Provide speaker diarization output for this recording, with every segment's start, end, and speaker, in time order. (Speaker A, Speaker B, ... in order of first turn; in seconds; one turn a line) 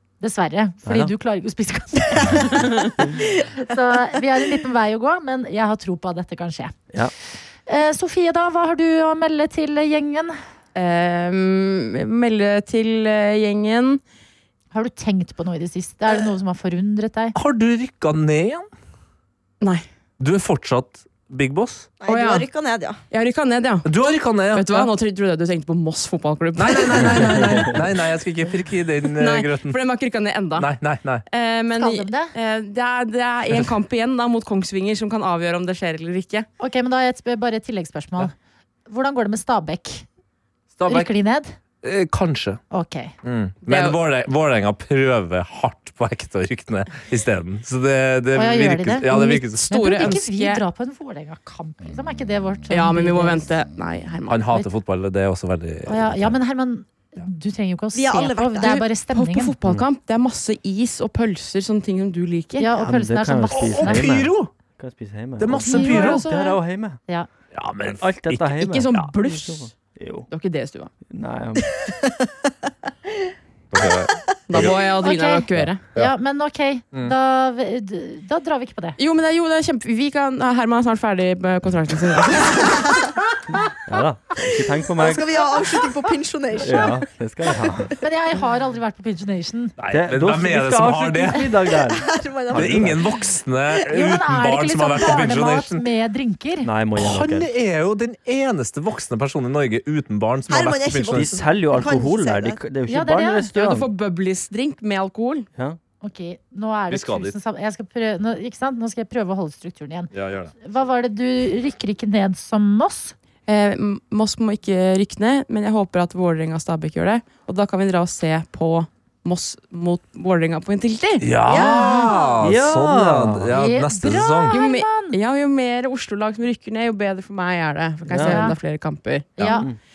Speaker A: 0.2-6.7
Speaker B: 0.8-1.1
Speaker A: 7.7-10.3
Speaker C: 10.7-14.0
Speaker A: 14.7-17.4
Speaker D: 17.3-18.7
Speaker C: 19.6-19.9
Speaker D: 20.2-21.9
Speaker E: 22.0-23.0
Speaker C: 22.1-22.5
Speaker C: 23.1-23.9
Speaker D: 23.8-24.9
Speaker C: 24.5-27.7
Speaker D: 26.6-29.8
Speaker C: 29.2-30.7
Speaker D: 30.6-31.2
Speaker C: 31.3-36.5
Speaker A: 31.7-32.3
Speaker A: 36.6-38.3
Speaker A: 38.9-40.0
Speaker D: 40.7-41.1
Speaker A: 40.9-41.5
Speaker D: 41.8-42.6
Speaker A: 42.7-43.1
Speaker D: 43.2-50.2
Speaker C: 43.6-44.0
Speaker A: 48.3-53.5
Speaker C: 49.6-50.6
Speaker C: 52.7-54.4
Speaker D: 54.3-56.4
Speaker A: 55.9-59.5
Speaker E: 57.9-58.8
Speaker C: 59.1-62.7
Speaker A: 62.6-64.1
Speaker B: 62.8-67.0
Speaker D: 63.5-64.5
Speaker D: 65.4-66.2
Speaker A: 65.7-66.2
Speaker C: 65.7-66.6
Speaker D: 67.5-69.1
Speaker B: 67.9-70.3
Speaker C: 68.6-69.7
Speaker C: 70.3-70.9
Speaker B: 71.1-71.7
Speaker D: 73.7-74.8
Speaker C: 74.5-75.8
Speaker A: 75.0-75.4
Speaker D: 75.6-76.1
Speaker A: 75.9-79.0
Speaker C: 79.0-82.8
Speaker B: 83.8-85.4
Speaker E: 85.0-87.0
Speaker B: 86.6-87.9
Speaker A: 88.0-89.7
Speaker D: 89.8-91.5
Speaker B: 89.9-93.0
Speaker E: 91.8-93.2
Speaker D: 92.5-95.9
Speaker A: 93.9-96.7
Speaker B: 96.6-97.5
Speaker D: 97.0-101.3
Speaker E: 100.5-102.6
Speaker B: 101.1-103.9
Speaker A: 102.9-103.5
Speaker C: 103.5-105.5
Speaker A: 106.0-113.1
Speaker D: 106.9-107.3
Speaker D: 110.1-110.5
Speaker C: 113.5-121.3
Speaker D: 121.2-124.6
Speaker E: 121.5-122.1
Speaker A: 121.5-122.3
Speaker B: 122.4-123.5
Speaker A: 123.5-125.2
Speaker C: 124.5-129.3
Speaker B: 128.1-128.5
Speaker A: 128.2-128.6
Speaker D: 129.4-129.6
Speaker A: 129.4-129.7
Speaker B: 129.5-129.8